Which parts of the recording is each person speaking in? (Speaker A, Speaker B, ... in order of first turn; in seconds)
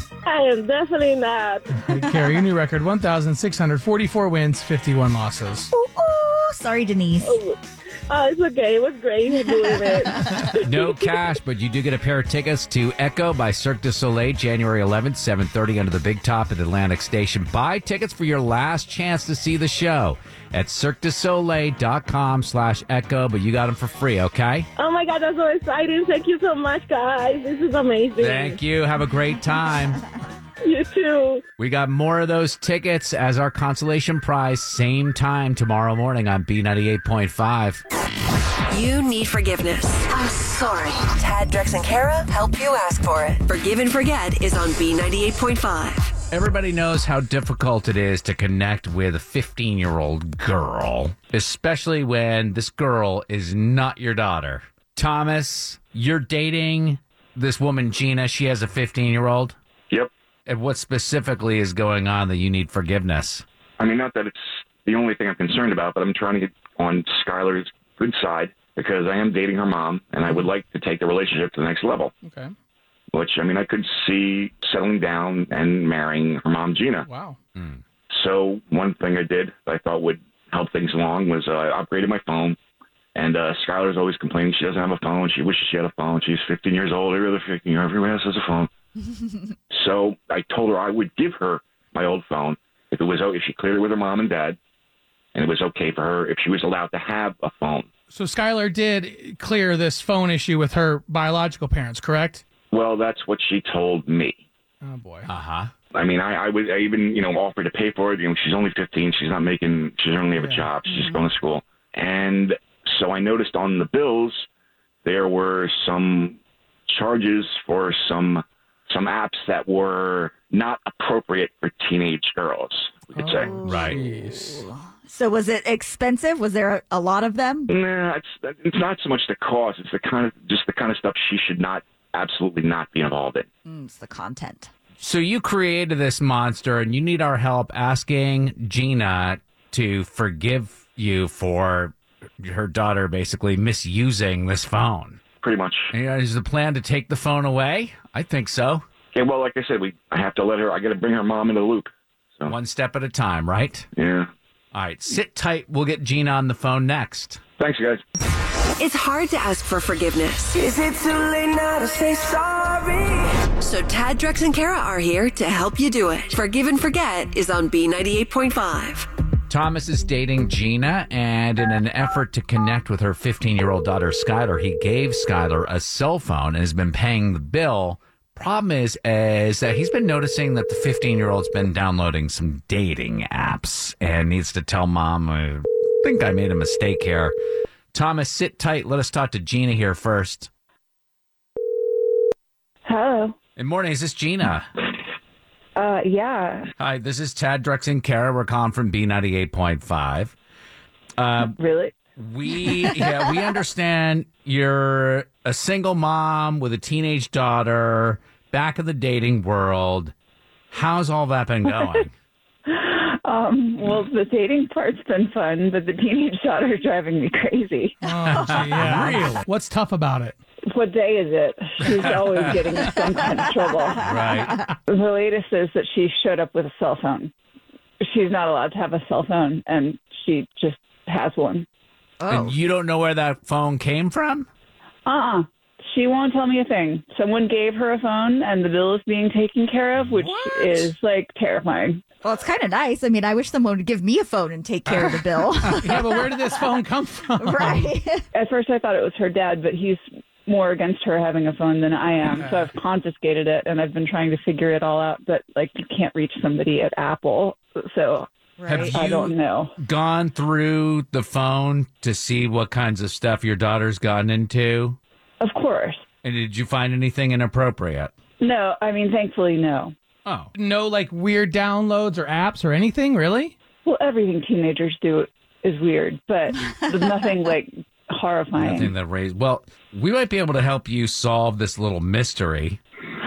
Speaker A: 0.2-1.8, 7.2-11.1, 24.8-28.6, 30.6-31.4
Speaker B: 1.7-5.7, 72.2-72.5, 77.0-77.4, 98.1-102.4, 104.8-105.3, 110.3-110.7, 123.1-124.6, 218.0-220.3, 245.0-247.9, 252.2-252.7, 270.6-273.6
Speaker C: 5.7-7.4, 110.9-111.2, 123.4-127.7, 133.7-134.7, 224.1-224.5, 232.2-232.6, 242.2-246.7, 247.4-248.3, 258.6-259.0
Speaker D: 10.6-24.7, 28.2-30.0, 31.6-37.8, 46.3-59.6, 60.5-63.4, 77.6-77.8, 105.3-105.7, 123.6-124.0, 135.0-145.2, 145.9-148.8, 152.5-153.9, 154.7-157.4, 169.5-187.4, 187.9-190.5, 193.6-194.7, 196.8-200.3, 201.2-201.6, 202.2-210.1, 210.7-212.1, 218.3-219.4, 221.8-222.9, 224.0-224.7, 232.3-234.5, 240.2-240.9, 258.7-265.0, 266.2-268.1, 270.3-270.5, 278.6-282.8
Speaker E: 38.7-46.1, 158.8-160.6, 163.4-169.1
Speaker F: 63.8-72.1, 73.1-77.1, 78.1-82.6, 83.2-88.7, 89.7-94.6, 95.3-97.9, 102.7-104.4, 105.9-114.5, 115.0-123.5, 127.7-133.5, 145.4-145.9, 149.2-152.5, 153.9-154.3, 157.6-158.0
Speaker G: 160.6-163.1, 192.9-193.3, 195.8-196.7, 201.6-201.9, 212.7-218.0, 220.7-224.1, 224.9-227.3, 228.0-231.7, 235.1-242.0, 248.3-258.3, 258.8-259.7, 265.4-266.0, 268.4-269.9, 273.9-278.9